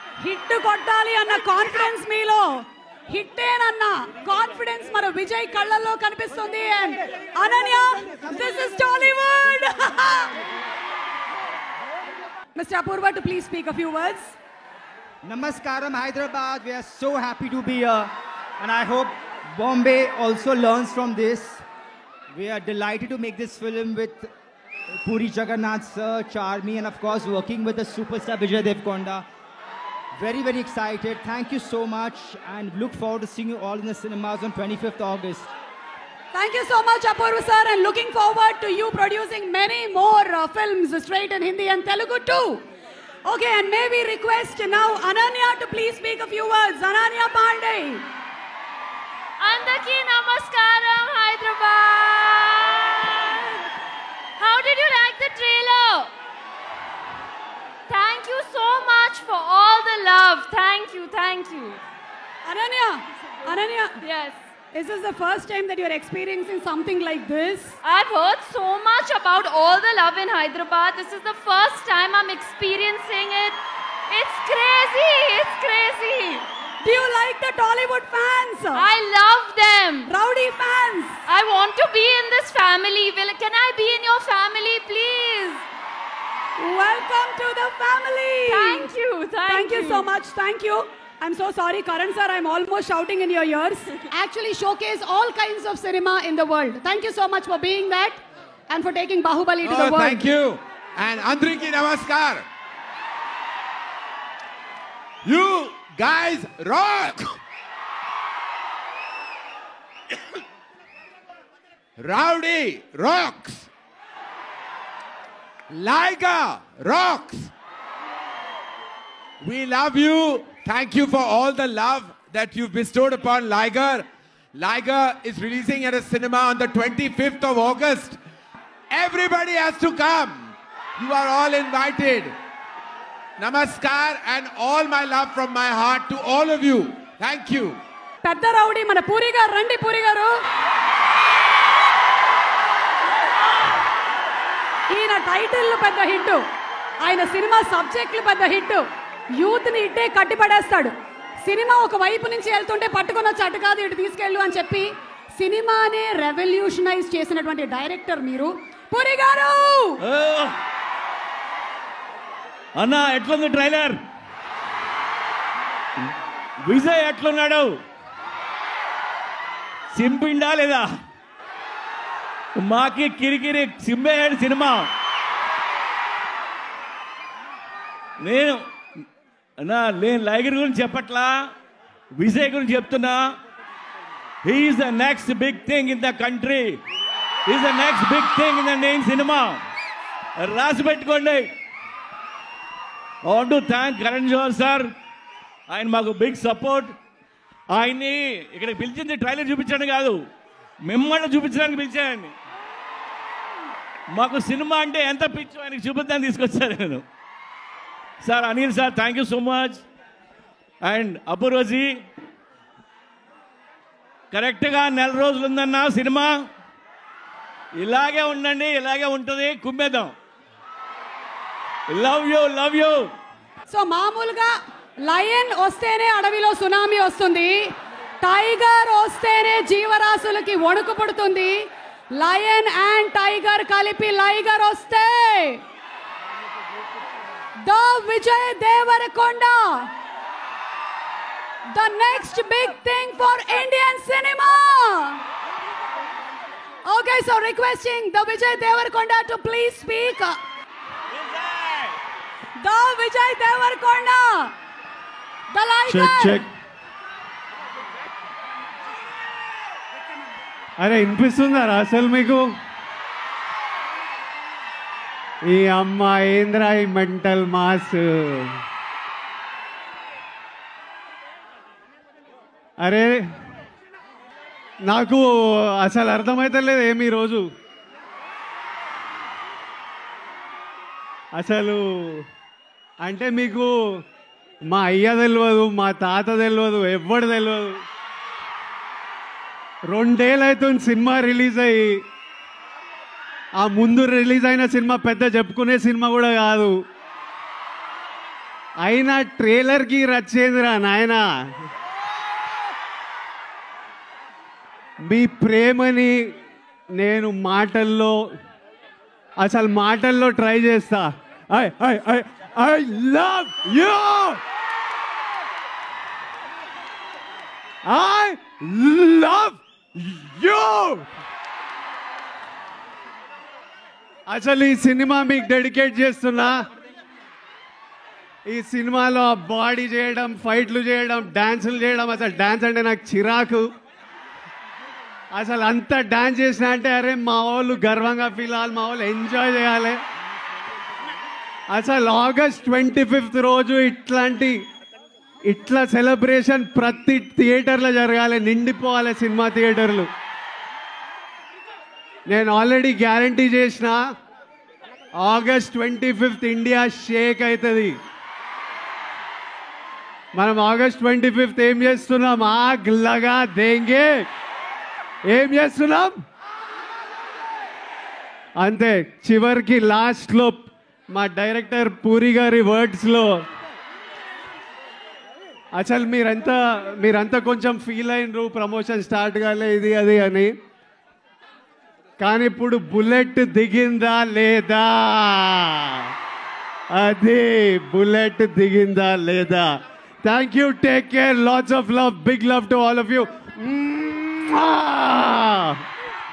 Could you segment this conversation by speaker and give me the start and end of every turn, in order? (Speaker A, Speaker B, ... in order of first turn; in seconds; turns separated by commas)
Speaker A: 0.2-10.3, Speaker A: 12.6-14.3, Speaker B: 15.2-21.6, Speaker B: 22.3-24.3, Speaker B: 25.0-29.2, Speaker B: 30.2-35.5, Speaker A: 36.3-42.6, Speaker A: 43.3-48.0, Speaker C: 49.4-53.6, Speaker C: 54.4-56.1, Speaker C: 57.9-61.8, Speaker A: 62.5-64.0, Speaker C: 64.0-64.4, Speaker A: 64.7-67.8, Speaker C: 67.8-73.6, Speaker C: 74.1-76.5, Speaker A: 76.8-78.8, Speaker C: 78.8-80.1, Speaker A: 80.1-81.2, Speaker C: 81.3-85.6, Speaker A: 86.6-88.9, Speaker C: 88.5-90.1, Speaker A: 89.5-98.2, Speaker A: 98.7-100.3, Speaker D: 99.6-102.5, Speaker D: 105.2-107.4, Speaker D: 112.0-113.7, Speaker D: 115.7-117.5, Speaker D: 119.4-128.2, Speaker D: 128.9-132.4, Speaker D: 133.4-137.8, Speaker A: 138.2-140.3, Speaker A: 144.9-146.4, Speaker A: 147.0-148.8, Speaker A: 149.4-150.9, Speaker A: 151.4-160.0, Speaker E: 160.1-160.6, Speaker E: 162.8-164.0, Speaker E: 166.7-167.7, Speaker E: 169.9-170.9, Speaker E: 172.6-174.9, Speaker E: 178.2-178.6, Speaker E: 179.6-181.5, Speaker E: 182.2-183.2, Speaker E: 184.4-186.8, Speaker E: 187.5-189.6, Speaker E: 190.4-191.5, Speaker E: 193.3-194.9, Speaker E: 195.7-196.9, Speaker E: 197.7-200.2, Speaker E: 200.8-202.3, Speaker E: 204.1-207.1, Speaker E: 208.2-209.8, Speaker E: 210.8-211.9, Speaker E: 214.3-216.4, Speaker E: 217.8-220.1, Speaker E: 221.9-223.1, Speaker A: 223.7-224.5, Speaker A: 225.1-231.6, Speaker A: 232.2-235.6, Speaker A: 237.7-239.9, Speaker A: 241.7-245.2, Speaker A: 246.9-250.3, Speaker E: 251.2-252.0, Speaker A: 252.6-254.5, Speaker A: 255.5-256.4, Speaker F: 255.9-256.4, Speaker F: 260.8-262.5, Speaker F: 265.5-268.6, Speaker F: 272.8-273.2, Speaker F: 274.9-277.5, Speaker F: 281.4-282.3, Speaker F: 283.0-283.8, Speaker F: 284.7-287.8, Speaker F: 289.9-292.0, Speaker F: 293.6-296.8, Speaker F: 298.8-301.2, Speaker F: 305.1-306.3, Speaker F: 307.0-308.2, Speaker F: 309.4-314.4, Speaker F: 317.9-321.1, Speaker F: 324.3-326.6, Speaker F: 328.5-333.7, Speaker F: 335.3-340.0, Speaker F: 341.7-344.6, Speaker F: 345.5-350.1, Speaker F: 352.3-354.0, Speaker F: 355.2-358.0, Speaker F: 360.4-364.3, Speaker F: 365.3-366.2, Speaker F: 368.6-373.4, Speaker F: 375.8-380.5, Speaker F: 382.2-386.1, Speaker F: 386.9-389.7, Speaker F: 390.2-395.8